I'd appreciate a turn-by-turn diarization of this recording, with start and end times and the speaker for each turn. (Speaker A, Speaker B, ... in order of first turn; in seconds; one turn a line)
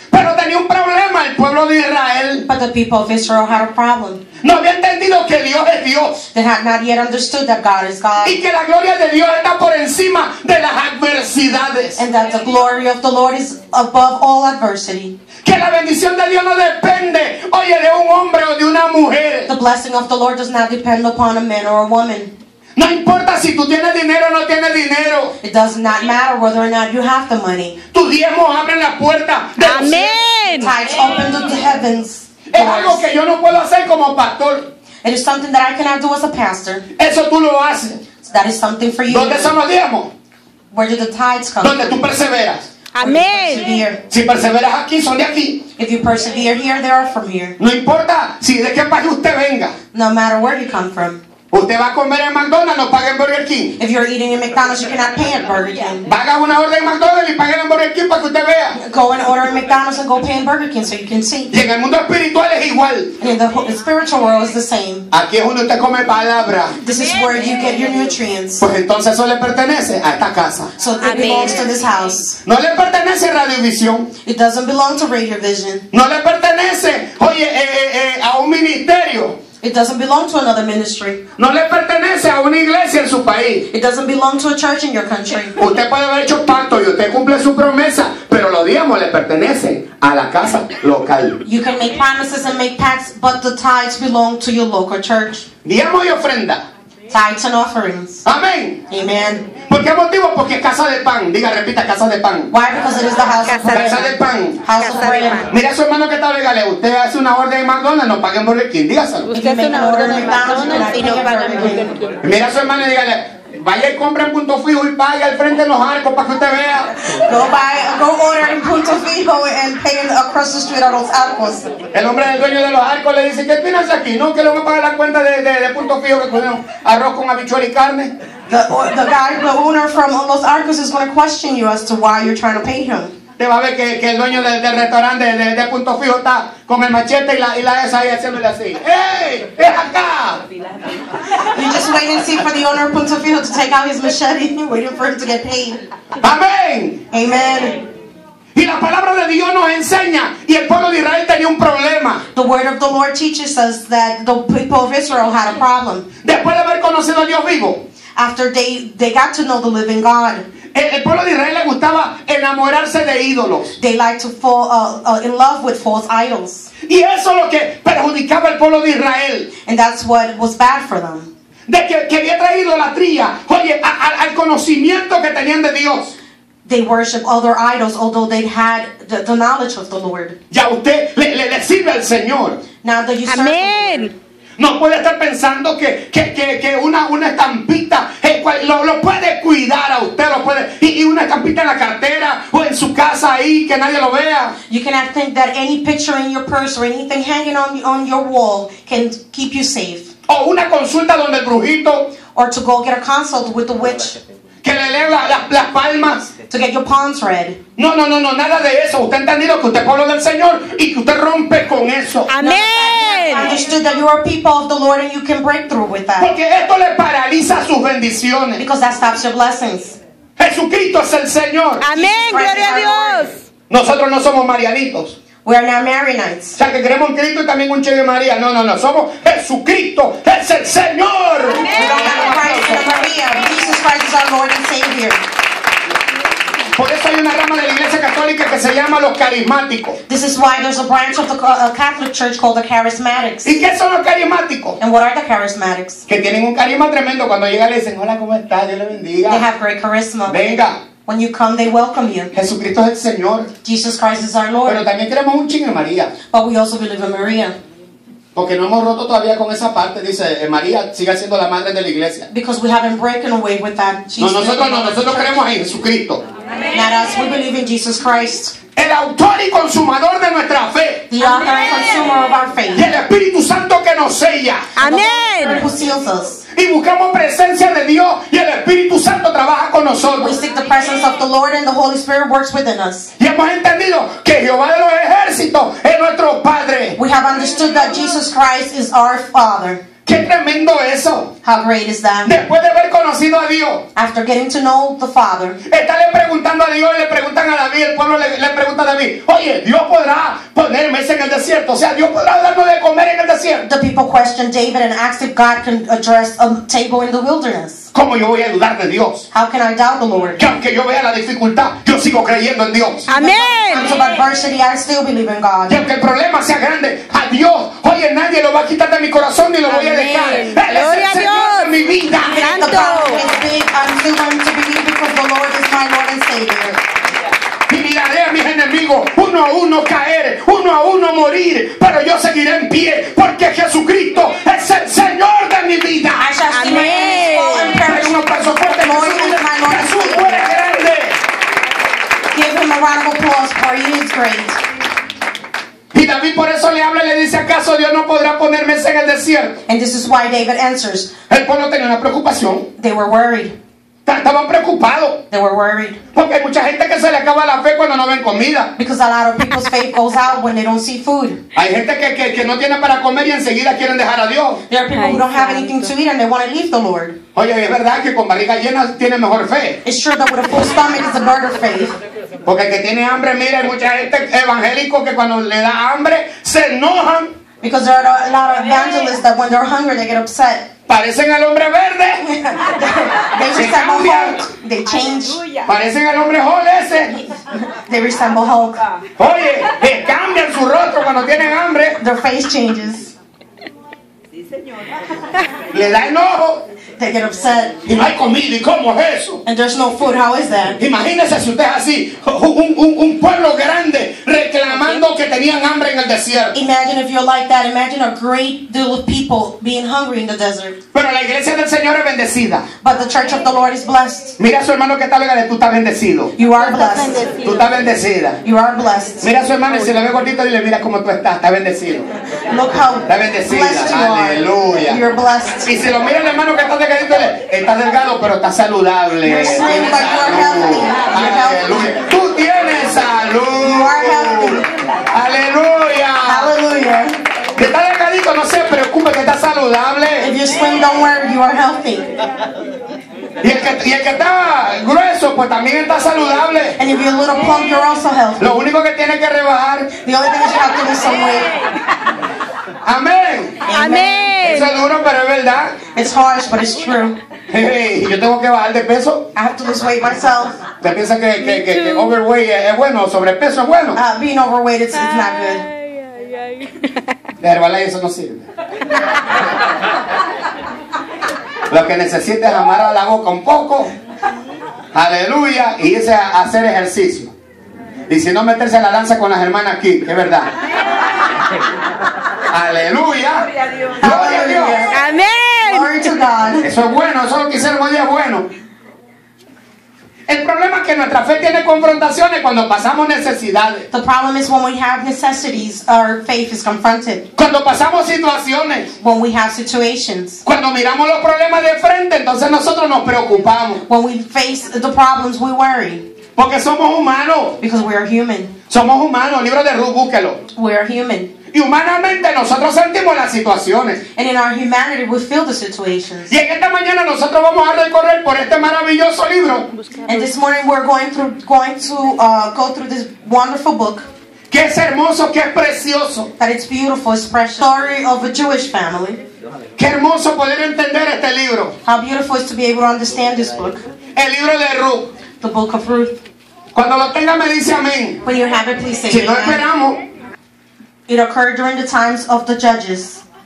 Speaker A: 0.1-2.5
Speaker B: 2.5-4.2
Speaker A: 4.4-6.2
Speaker B: 6.3-8.4
Speaker A: 8.2-12.0
Speaker B: 11.9-15.2
Speaker A: 15.4-19.5
Speaker B: 19.5-22.3
Speaker A: 22.8-25.3
Speaker B: 25.4-27.8
Speaker A: 27.9-30.2
Speaker C: 29.6-30.7
Speaker B: 30.6-33.1
Speaker A: 32.5-34.7
Speaker B: 35.0-36.8
Speaker A: 37.0-38.0
Speaker B: 38.2-39.5
Speaker A: 39.1-40.1
Speaker B: 40.7-42.0
Speaker A: 41.6-42.7
Speaker C: 42.9-43.7
Speaker B: 43.0-44.0
Speaker A: 44.1-45.6
Speaker B: 45.8-47.6
Speaker A: 47.6-49.7
Speaker B: 49.9-51.2
Speaker A: 51.5-53.8
Speaker B: 53.8-56.1
Speaker A: 56.0-58.8
Speaker B: 58.8-61.5
Speaker A: 61.5-63.1
Speaker B: 63.2-65.1
Speaker A: 65.1-66.8
Speaker B: 66.8-68.6
Speaker C: 67.2-67.4
Speaker A: 68.6-70.7
Speaker B: 70.8-72.4
Speaker C: 71.0-71.7
Speaker A: 72.4-74.1
Speaker B: 74.2-75.9
Speaker A: 75.9-79.4
Speaker B: 79.6-81.2
Speaker A: 81.4-83.7
Speaker B: 83.7-85.6
Speaker A: 85.5-91.4
Speaker B: 91.4-95.5
Speaker A: 95.6-96.6
Speaker B: 97.1-98.2
Speaker A: 98.2-98.8
Speaker B: 98.9-99.5
Speaker A: 99.7-102.5
Speaker B: 102.5-105.5
Speaker C: 103.5-103.8
Speaker A: 103.7-104.7
Speaker C: 104.8-105.4
Speaker A: 105.5-109.3
Speaker B: 109.3-111.9
Speaker C: 109.3-112.1
Speaker A: 112.2-116.9
Speaker B: 117.0-121.7
Speaker A: 121.9-128.1
Speaker B: 128.5-133.1
Speaker A: 133.4-140.4
Speaker B: 141.5-145.8
Speaker A: 146.2-147.0
Speaker B: 147.1-147.8
Speaker A: 148.5-152.2
Speaker B: 152.3-156.1
Speaker A: 156.2-157.8
Speaker B: 158.2-160.5
Speaker A: 160.7-163.8
Speaker B: 163.8-166.7
Speaker A: 166.8-169.5
Speaker B: 169.7-171.3
Speaker A: 171.7-176.1
Speaker B: 176.6-180.4
Speaker A: 180.5-182.6
Speaker B: 182.8-184.1
Speaker C: 183.3-184.1
Speaker A: 184.6-194.5
Speaker B: 194.7-200.1
Speaker A: 200.3-202.1
Speaker B: 202.3-204.2
Speaker A: 204.6-206.3
Speaker B: 206.4-207.6
Speaker A: 207.8-212.3
Speaker C: 212.3-213.5
Speaker B: 212.4-216.3
Speaker A: 216.2-218.6
Speaker B: 218.6-220.0
Speaker A: 220.4-221.8
Speaker C: 221.8-223.3
Speaker B: 221.9-223.3
Speaker A: 223.7-225.1
Speaker B: 225.4-226.6
Speaker A: 226.6-232.8
Speaker C: 231.6-232.3
Speaker B: 231.7-235.2
Speaker A: 236.7-240.0
Speaker B: 240.1-243.6
Speaker A: 243.4-244.8
Speaker B: 244.8-246.0
Speaker A: 246.1-249.4
Speaker B: 249.3-252.3
Speaker A: 250.3-250.8
Speaker A: 252.3-253.5
Speaker B: 253.6-254.8
Speaker A: 254.7-256.1
Speaker B: 256.3-257.5
Speaker A: 258.3-262.3
Speaker B: 262.3-265.4
Speaker A: 264.2-266.2
Speaker B: 266.7-268.6
Speaker A: 268.8-271.1
Speaker B: 271.1-272.9
Speaker C: 271.2-271.8
Speaker A: 272.7-274.7
Speaker C: 274.8-275.6
Speaker B: 274.8-276.4
Speaker A: 276.5-280.3
Speaker B: 280.2-283.1
Speaker A: 283.2-287.0
Speaker B: 286.9-289.8
Speaker A: 290.1-291.3
Speaker B: 291.4-292.3
Speaker A: 292.2-293.8
Speaker B: 293.9-295.6
Speaker A: 295.6-303.6
Speaker B: 303.6-307.9
Speaker A: 307.9-309.3
Speaker B: 309.3-310.4
Speaker A: 310.4-313.1
Speaker C: 313.1-313.9
Speaker B: 313.1-315.8
Speaker A: 315.7-322.6
Speaker C: 319.6-323.2
Speaker B: 322.3-326.8
Speaker A: 327.7-336.3
Speaker B: 336.2-340.4
Speaker C: 336.5-337.8
Speaker A: 337.7-341.2
Speaker B: 342.3-344.6
Speaker A: 345.9-349.6
Speaker B: 349.7-351.1
Speaker A: 351.3-352.7
Speaker B: 352.8-353.5
Speaker A: 354.1-355.2
Speaker B: 355.3-356.0
Speaker A: 356.1-358.7
Speaker B: 358.8-361.4
Speaker A: 361.5-364.6
Speaker B: 364.7-367.2
Speaker A: 367.3-369.8
Speaker B: 369.8-371.9
Speaker A: 372.4-377.3
Speaker B: 377.6-380.7
Speaker A: 380.9-382.2
Speaker B: 382.2-385.4
Speaker A: 383.4-384.4
Speaker A: 385.6-387.1
Speaker B: 387.5-388.8
Speaker A: 389.2-392.0
Speaker B: 392.0-393.1
Speaker A: 395.7-396.6
Speaker B: 397.0-397.8
Speaker A: 397.8-399.4
Speaker B: 399.4-400.8
Speaker A: 400.8-406.5
Speaker B: 406.5-410.8
Speaker A: 410.9-412.7
Speaker B: 412.8-414.3
Speaker A: 414.4-416.3
Speaker B: 416.4-417.3
Speaker A: 417.4-418.4
Speaker B: 418.4-419.2
Speaker A: 419.2-422.1
Speaker B: 422.5-425.7
Speaker A: 423.1-425.0
Speaker A: 425.6-436.5
Speaker B: 429.2-431.9
Speaker B: 433.6-434.6
Speaker B: 436.2-437.1
Speaker A: 437.6-440.3
Speaker B: 440.2-442.1
Speaker A: 443.4-446.8
Speaker B: 446.8-448.4
Speaker A: 448.4-449.9
Speaker B: 450.0-451.5
Speaker A: 452.8-453.7
Speaker B: 453.7-454.3
Speaker C: 453.7-454.7
Speaker A: 454.4-455.8
Speaker B: 455.9-457.2
Speaker A: 457.5-459.3
Speaker B: 459.3-460.6
Speaker A: 460.8-464.0
Speaker B: 463.9-465.6
Speaker A: 467.4-468.5
Speaker A: 471.7-473.9
Speaker A: 474.9-477.3
Speaker A: 478.1-480.5
Speaker A: 482.5-483.5
Speaker B: 484.0-485.0
Speaker A: 484.0-484.9
Speaker C: 484.9-486.1
Speaker B: 485.6-486.6
Speaker A: 486.6-488.5
Speaker A: 490.3-493.9
Speaker B: 493.9-497.3
Speaker A: 497.4-498.9
Speaker B: 499.0-500.4
Speaker A: 500.4-503.8
Speaker B: 503.9-506.0
Speaker A: 506.4-507.6
Speaker B: 507.6-508.5
Speaker A: 508.7-510.4
Speaker B: 510.5-511.3
Speaker A: 511.5-514.0
Speaker B: 514.1-516.3
Speaker A: 516.3-519.7
Speaker B: 520.0-524.0
Speaker A: 524.5-526.3
Speaker B: 526.4-529.2
Speaker A: 529.8-531.7
Speaker B: 531.8-533.8
Speaker A: 534.1-535.1
Speaker B: 535.4-536.2
Speaker A: 536.7-538.2
Speaker B: 538.2-539.6
Speaker A: 539.1-540.0
Speaker B: 541.1-543.2